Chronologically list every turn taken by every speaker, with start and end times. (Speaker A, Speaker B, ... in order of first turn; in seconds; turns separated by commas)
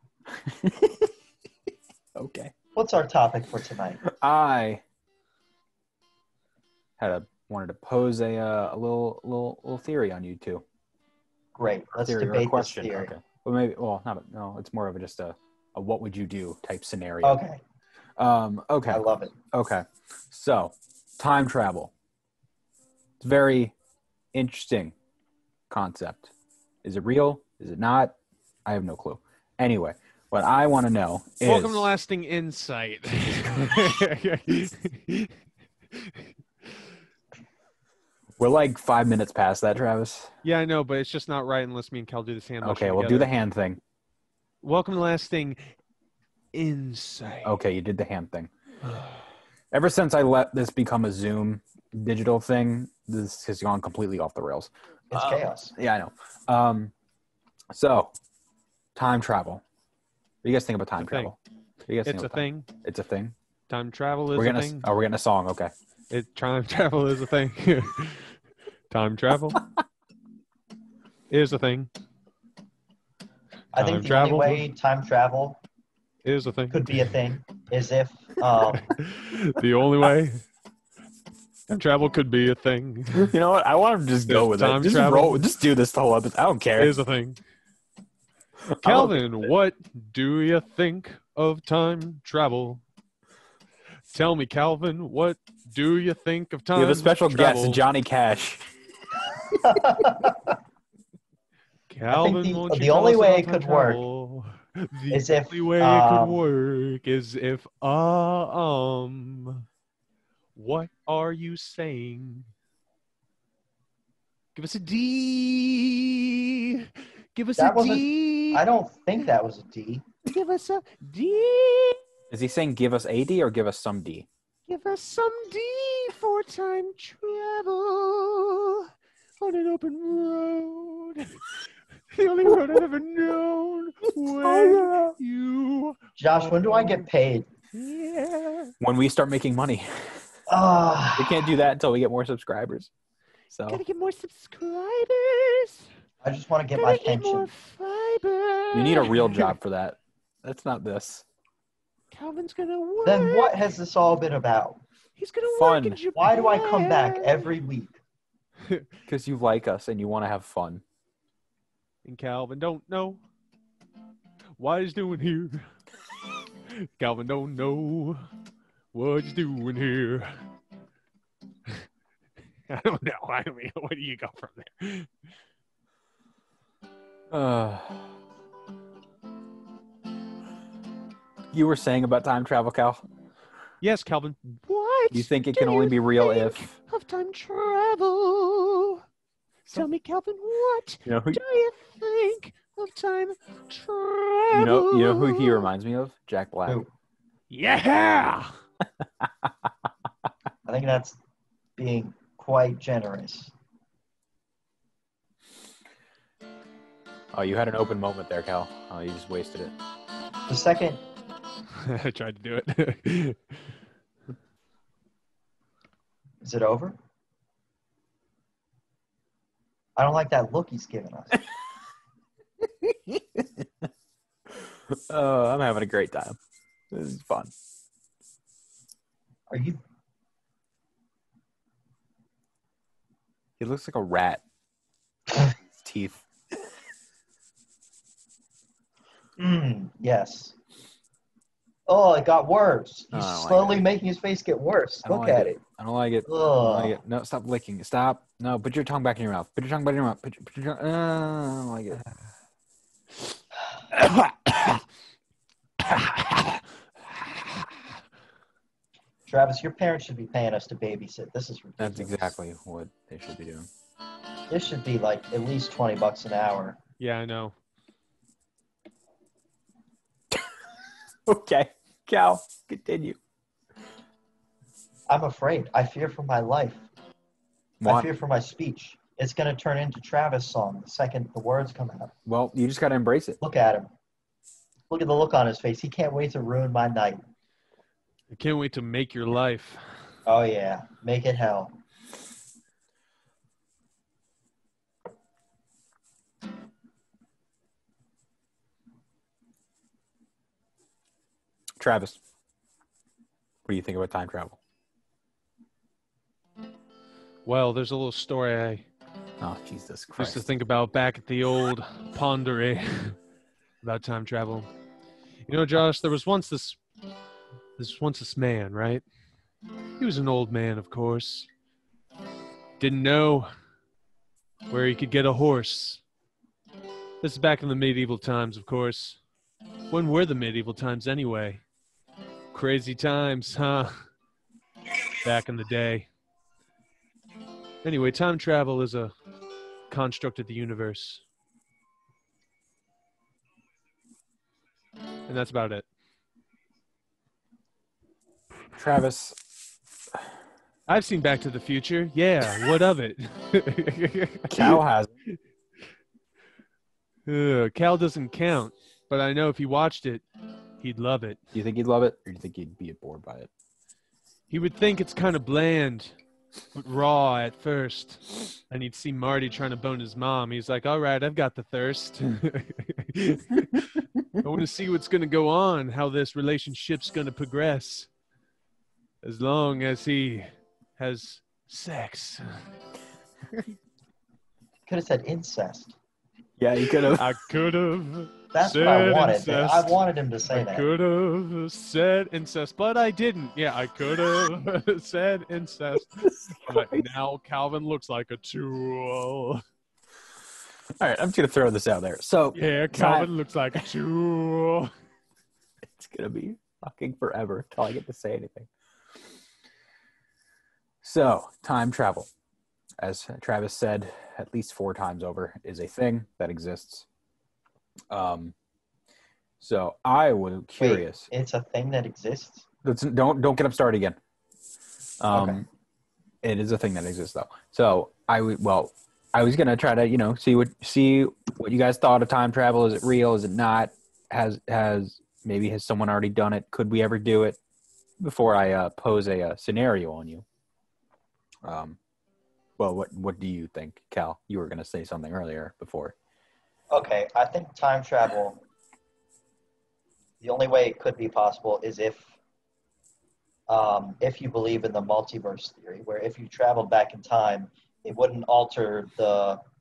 Speaker A: 0.3-1.1, Speaker A: 2.1-2.5, Speaker B: 2.8-4.0, Speaker A: 4.0-4.8, Speaker A: 7.0-10.6, Speaker B: 11.6-13.1, Speaker A: 12.0-17.4, Speaker B: 17.2-17.6, Speaker A: 18.2-21.9, Speaker B: 18.9-19.3, Speaker A: 23.2-23.7, Speaker A: 24.3-24.9, Speaker A: 25.7-26.3, Speaker A: 26.8-31.9, Speaker C: 31.4-35.3, Speaker C: 35.9-36.3, Speaker A: 38.4-40.3, Speaker C: 40.4-43.3, Speaker A: 42.6-43.8, Speaker C: 44.6-45.6, Speaker C: 46.5-47.6, Speaker A: 47.4-48.5, Speaker A: 49.7-56.9, Speaker B: 55.1-55.7, Speaker A: 57.7-58.1, Speaker A: 59.0-59.6, Speaker A: 60.4-63.4, Speaker C: 61.0-61.3, Speaker C: 62.0-62.7, Speaker C: 63.7-64.9, Speaker A: 64.3-65.7, Speaker C: 66.1-68.3, Speaker C: 68.9-69.6, Speaker C: 71.3-71.9, Speaker B: 73.8-75.6, Speaker C: 73.8-74.6, Speaker C: 76.2-77.1, Speaker B: 76.7-78.9, Speaker C: 78.9-80.4, Speaker C: 81.7-83.3, Speaker A: 83.1-87.0, Speaker C: 84.3-85.4, Speaker C: 86.8-87.4, Speaker A: 88.6-89.5, Speaker C: 88.8-92.8, Speaker C: 94.1-97.8, Speaker A: 96.8-98.6, Speaker B: 99.5-100.4, Speaker C: 101.9-109.7, Speaker B: 102.1-104.0, Speaker B: 105.1-106.4, Speaker C: 110.6-112.5, Speaker C: 114.5-118.7, Speaker B: 117.6-120.0, Speaker C: 120.3-122.0, Speaker A: 122.3-124.3, Speaker C: 124.7-128.9, Speaker C: 129.4-131.4, Speaker C: 132.1-137.1, Speaker A: 132.5-132.8, Speaker A: 134.3-135.2, Speaker B: 136.2-137.5, Speaker C: 137.7-138.7, Speaker A: 138.8-140.2, Speaker B: 140.5-141.4, Speaker A: 141.2-142.9, Speaker A: 143.5-143.8, Speaker C: 143.7-145.9, Speaker B: 146.2-147.5, Speaker C: 146.8-149.5, Speaker A: 148.7-151.2, Speaker C: 152.1-153.6, Speaker B: 153.0-154.8, Speaker C: 155.2-157.5, Speaker A: 155.5-156.0, Speaker B: 156.2-158.0, Speaker A: 159.1-160.8, Speaker C: 162.1-163.2, Speaker C: 164.6-165.7, Speaker C: 166.7-168.2, Speaker C: 168.9-170.3, Speaker C: 172.7-175.1, Speaker A: 177.3-178.1, Speaker A: 181.5-183.1, Speaker C: 183.8-189.0, Speaker A: 185.1-186.7, Speaker C: 189.7-195.7, Speaker A: 191.1-191.4, Speaker A: 194.5-196.8, Speaker C: 197.5-198.5, Speaker A: 199.2-199.5, Speaker B: 200.7-201.2, Speaker B: 201.8-203.5, Speaker A: 207.3-209.7, Speaker B: 210.5-211.0, Speaker C: 211.8-213.6, Speaker B: 216.4-217.0, Speaker B: 220.0-221.4, Speaker A: 222.6-223.8, Speaker A: 224.5-226.4, Speaker A: 226.9-227.5, Speaker B: 229.5-229.8, Speaker A: 233.6-234.4, Speaker A: 235.3-236.3, Speaker B: 239.4-240.6, Speaker B: 241.9-245.6, Speaker A: 243.1-243.9, Speaker A: 245.0-252.0, Speaker B: 246.3-247.0, Speaker C: 253.9-254.8, Speaker C: 255.9-256.6, Speaker B: 259.3-262.3, Speaker A: 261.8-263.7, Speaker B: 264.5-266.8, Speaker C: 267.0-267.6, Speaker A: 271.3-273.2, Speaker B: 275.1-276.9, Speaker A: 277.8-278.1, Speaker B: 277.9-282.1, Speaker A: 282.3-283.4, Speaker B: 283.4-283.9, Speaker B: 284.9-287.2, Speaker C: 288.3-289.8, Speaker B: 290.3-291.7, Speaker A: 301.8-302.2, Speaker A: 303.7-304.6, Speaker C: 307.5-308.9, Speaker A: 309.4-310.5, Speaker C: 310.2-313.2, Speaker C: 313.8-314.7, Speaker C: 315.5-316.8, Speaker C: 317.8-319.0, Speaker C: 320.0-321.5, Speaker C: 322.8-323.5, Speaker C: 324.7-326.0, Speaker C: 327.2-329.2, Speaker C: 329.9-331.6, Speaker C: 332.5-334.0, Speaker C: 335.2-336.1, Speaker C: 337.8-339.1, Speaker C: 339.9-341.2, Speaker C: 345.3-345.9, Speaker A: 348.8-349.4, Speaker C: 350.9-354.8, Speaker A: 354.5-355.1, Speaker C: 357.3-360.2, Speaker C: 360.8-361.4, Speaker A: 361.5-363.5, Speaker C: 364.5-366.2, Speaker C: 366.8-378.1, Speaker C: 379.2-382.4, Speaker B: 384.9-386.0, Speaker A: 386.6-387.4, Speaker C: 387.1-390.0, Speaker B: 388.5-390.9, Speaker C: 390.5-399.6, Speaker A: 396.2-397.1, Speaker A: 401.0-403.3, Speaker C: 402.5-404.9, Speaker A: 405.9-408.7, Speaker A: 411.0-412.3, Speaker A: 413.0-417.1, Speaker A: 418.1-418.5, Speaker A: 419.6-421.3, Speaker B: 420.8-422.7, Speaker A: 422.8-424.2, Speaker A: 425.2-425.7, Speaker B: 425.3-425.6, Speaker A: 426.4-437.6, Speaker A: 438.2-440.4, Speaker A: 441.6-442.0, Speaker A: 442.8-446.1, Speaker B: 446.9-448.6, Speaker B: 450.4-452.4, Speaker B: 453.7-459.6